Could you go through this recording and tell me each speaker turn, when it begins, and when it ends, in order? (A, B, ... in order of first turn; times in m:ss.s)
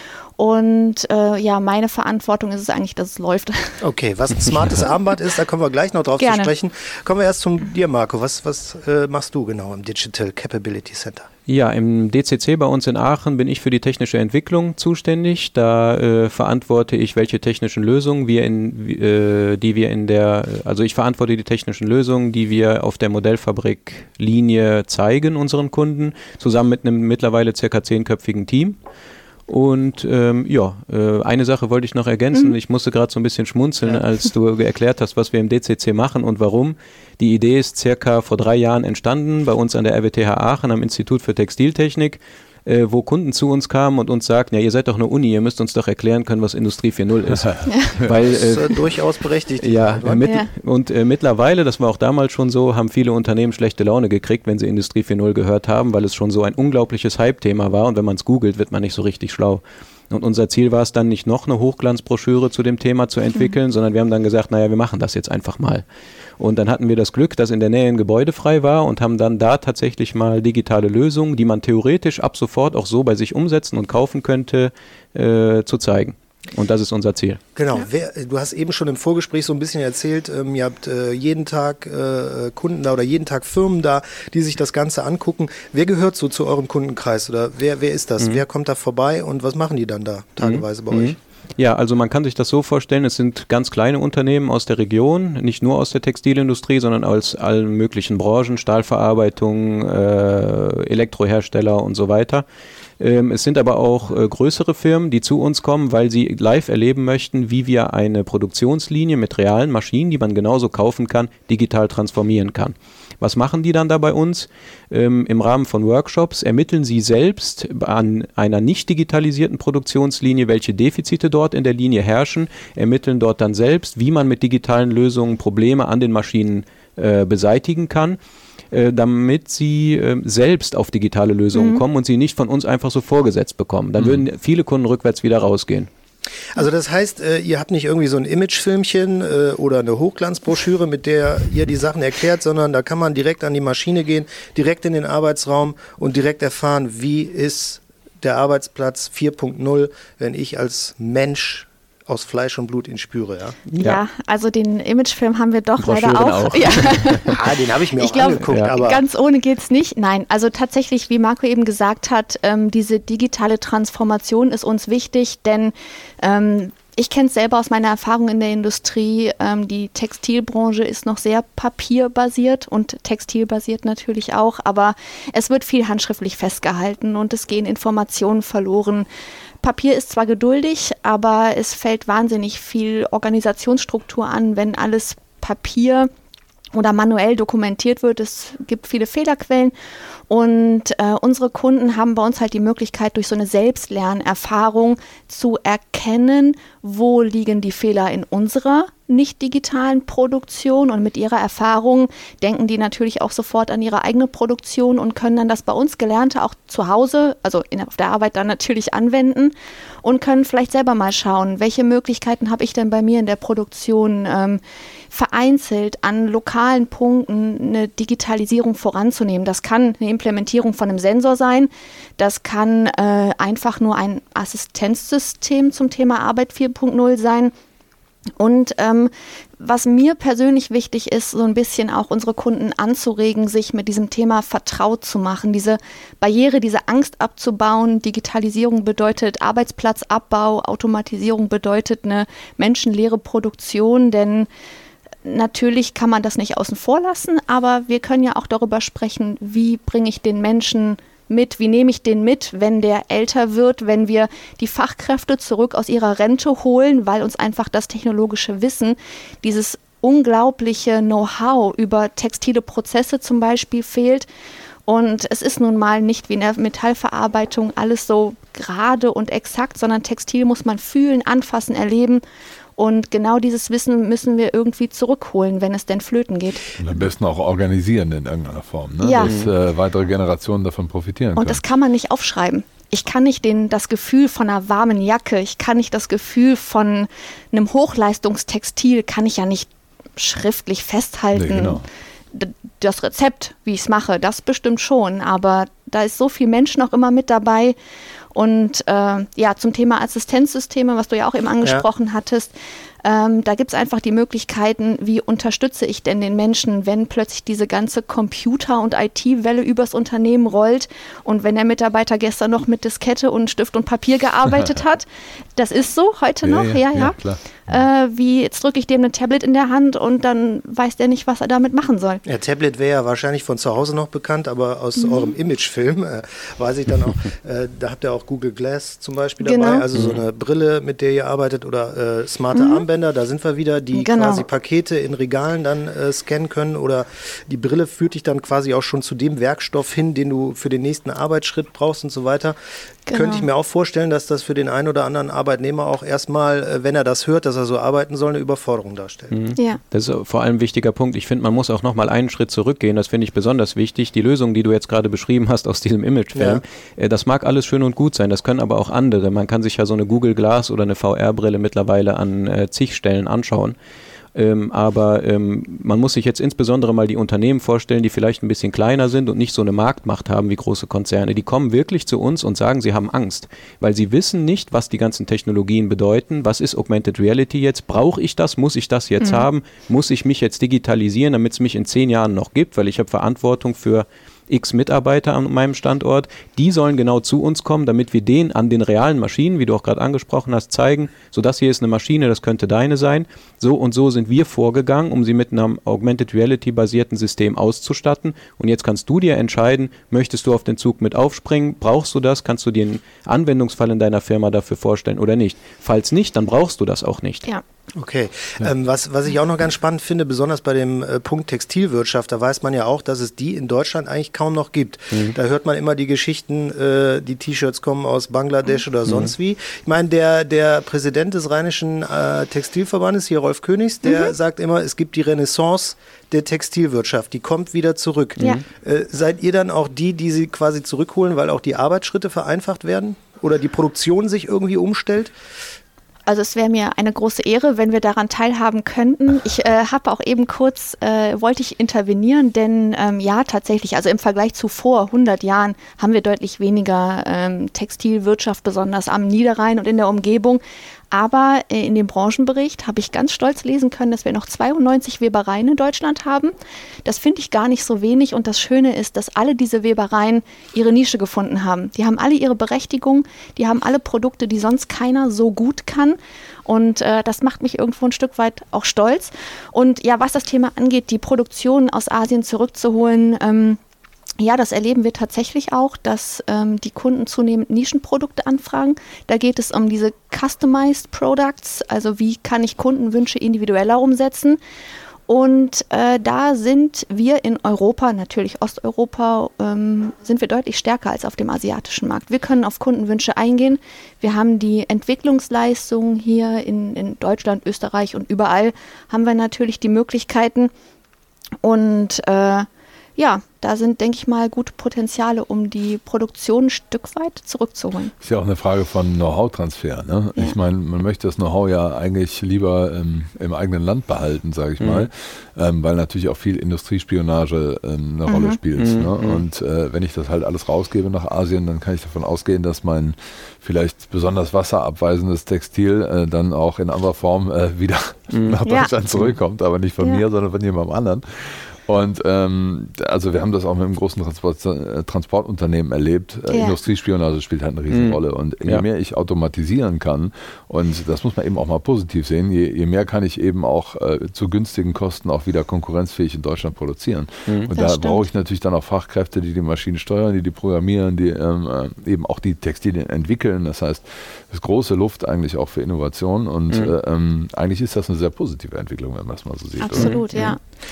0:00.4-0:03.8 A
0:03.8-0:11.3 B
0:06.2-0:06.5 A
0:11.5-0:28.8 C
0:29.5-0:48.8 C
0:47.7-0:48.0 A
0:48.2-0:50.3 B
0:49.6-1:05.8 C
1:06.4-1:17.4 C
1:17.6-1:31.2 B
1:30.4-1:42.4 C
1:43.0-2:08.2 C
2:08.7-2:15.9 C
2:11.5-2:11.8 A
2:16.5-2:33.7 B
2:33.7-2:34.0 C
2:33.8-2:59.1 A
2:35.8-2:37.3 C
2:37.2-2:39.0 B
2:38.4-2:38.7 C
2:59.6-3:06.1 A
3:06.7-3:09.7 A
3:10.3-3:47.5 A
3:48.4-4:04.5 A
4:05.2-4:24.3 A
4:24.8-4:32.2 A
4:32.8-4:36.7 A
4:36.8-4:41.6 D
4:39.0-4:39.4 A
4:39.2-4:39.5 C
4:41.4-4:57.8 A
4:51.3-4:51.8 D
4:58.3-5:02.5 A
5:03.0-5:15.0 A
5:15.6-5:22.2 A
5:16.4-5:17.8 D
5:22.2-5:42.6 B
5:25.0-5:25.3 A
5:29.4-5:29.8 A
5:29.9-5:30.2 C
5:32.5-5:32.8 A
5:33.9-5:34.4 A
5:43.1-5:43.5 A
5:43.1-5:49.4 B
5:49.3-6:03.7 C
5:56.3-5:56.6 B
6:04.3-6:47.4 C
6:19.2-6:19.4 A
6:47.9-7:15.3 B
6:59.1-6:59.3 C
7:04.0-7:04.3 A
7:16.3-7:36.5 A
7:37.0-7:53.8 A
7:54.4-8:04.6 A
8:05.3-8:20.7 A
8:21.6-8:28.1 A
8:28.2-9:20.2 D
8:34.8-8:35.1 C
8:38.3-8:38.6 A
8:38.8-8:39.4 C
8:48.3-8:48.6 C
8:48.6-8:48.9 A
8:56.5-8:56.8 A
8:57.9-8:58.8 C
9:07.7-9:08.3 A
9:19.8-9:20.6 A
9:19.9-9:20.5 C